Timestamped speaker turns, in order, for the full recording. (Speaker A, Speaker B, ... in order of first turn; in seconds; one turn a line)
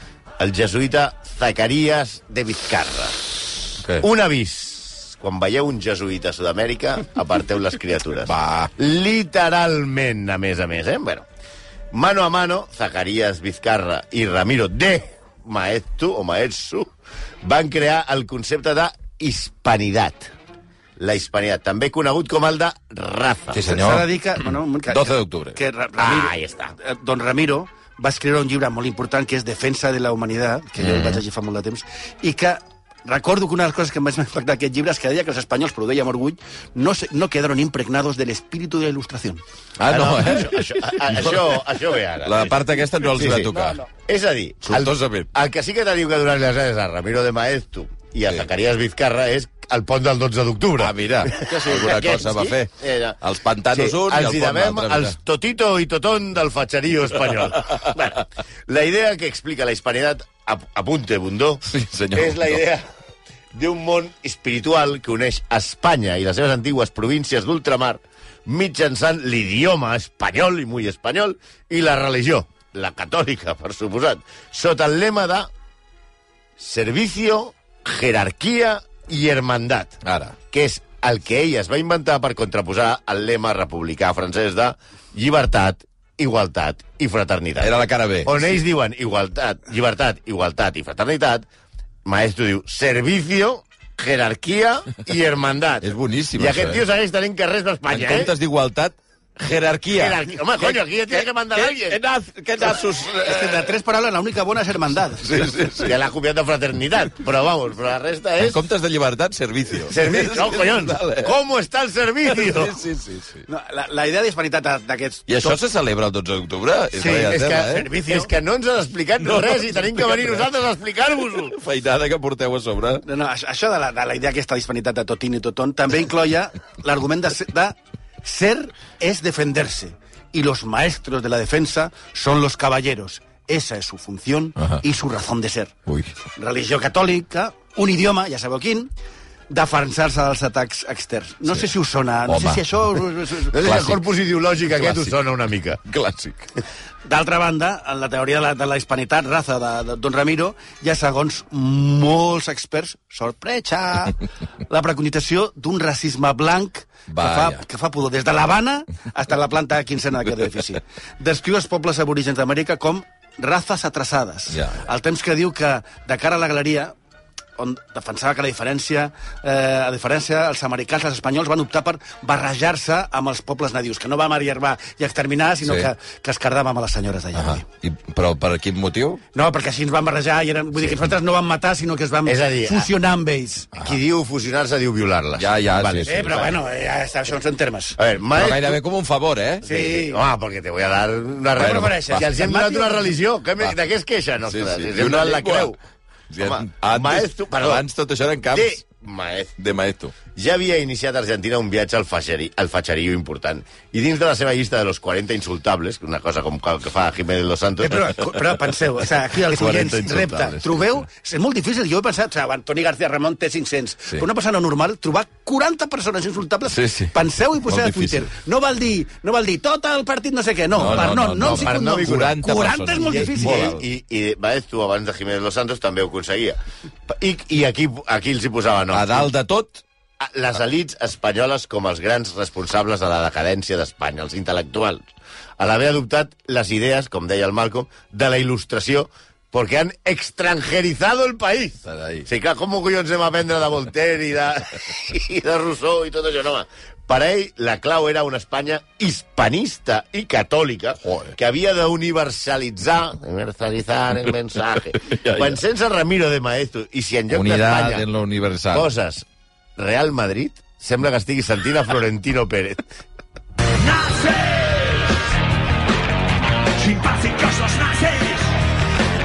Speaker A: 0.4-11.3
Speaker B: 8.3-8.7
Speaker A: 11.9-16.9
Speaker A: 17.4-20.3
Speaker A: 21.0-23.6
Speaker B: 23.5-24.1
Speaker C: 23.7-39.4
Speaker B: 24.9-25.6
Speaker A: 26.0-26.7
Speaker B: 30.8-31.2
Speaker B: 39.8-41.6
Speaker A: 39.9-42.6
Speaker B: 42.2-43.8
Speaker A: 43.1-53.2
Speaker B: 44.6-45.3
Speaker B: 50.8-55.1
Speaker A: 53.7-62.9
Speaker B: 61.7-62.6
Speaker A: 63.5-75.5
Speaker A: 76.6-80.0
Speaker B: 80.0-80.3
Speaker A: 80.5-91.5
Speaker B: 87.6-88.5
Speaker A: 92.0-98.3
Speaker B: 95.8-96.8
Speaker B: 97.9-103.7
Speaker A: 99.9-102.0
Speaker C: 103.0-105.5
Speaker B: 105.2-106.0
Speaker A: 105.8-108.6
Speaker B: 108.4-111.3
Speaker A: 109.9-112.8
Speaker B: 112.3-113.4
Speaker C: 113.5-115.6
Speaker B: 115.3-117.9
Speaker C: 117.0-118.3
Speaker A: 117.3-121.6
Speaker B: 119.3-120.4
Speaker B: 121.4-123.0
Speaker C: 123.0-135.7
Speaker B: 135.9-136.1
Speaker C: 136.4-138.9
Speaker C: 139.5-143.8
Speaker B: 142.3-143.1
Speaker A: 143.5-145.8
Speaker B: 143.6-144.0
Speaker B: 144.8-145.1
Speaker B: 145.9-146.5
Speaker C: 147.1-166.9
Speaker B: 157.1-157.6
Speaker B: 164.5-164.8
Speaker C: 167.6-177.6
Speaker B: 177.3-179.2
Speaker C: 179.3-183.8
Speaker A: 182.2-182.9
Speaker A: 183.8-186.6
Speaker B: 185.4-186.4
Speaker C: 186.1-188.0
Speaker A: 188.0-188.8
Speaker B: 188.3-189.7
Speaker C: 189.6-190.2
Speaker A: 189.6-195.8
Speaker C: 191.6-193.2
Speaker B: 191.6-192.3
Speaker B: 194.5-195.8
Speaker B: 196.3-198.8
Speaker A: 196.4-197.8
Speaker A: 198.5-199.6
Speaker B: 199.6-200.2
Speaker A: 200.3-208.1
Speaker C: 207.8-223.8
Speaker B: 209.4-211.1
Speaker B: 216.7-217.1
Speaker B: 217.7-218.3
Speaker B: 220.8-223.8
Speaker A: 220.9-222.4
Speaker A: 223.0-229.3
Speaker B: 228.9-229.8
Speaker A: 230.2-258.1
Speaker B: 241.9-242.3
Speaker B: 251.1-251.3
Speaker B: 255.0-255.6
Speaker B: 257.3-258.9
Speaker A: 258.7-259.3
Speaker A: 259.8-262.9
Speaker C: 263.8-265.1
Speaker C: 266.8-268.5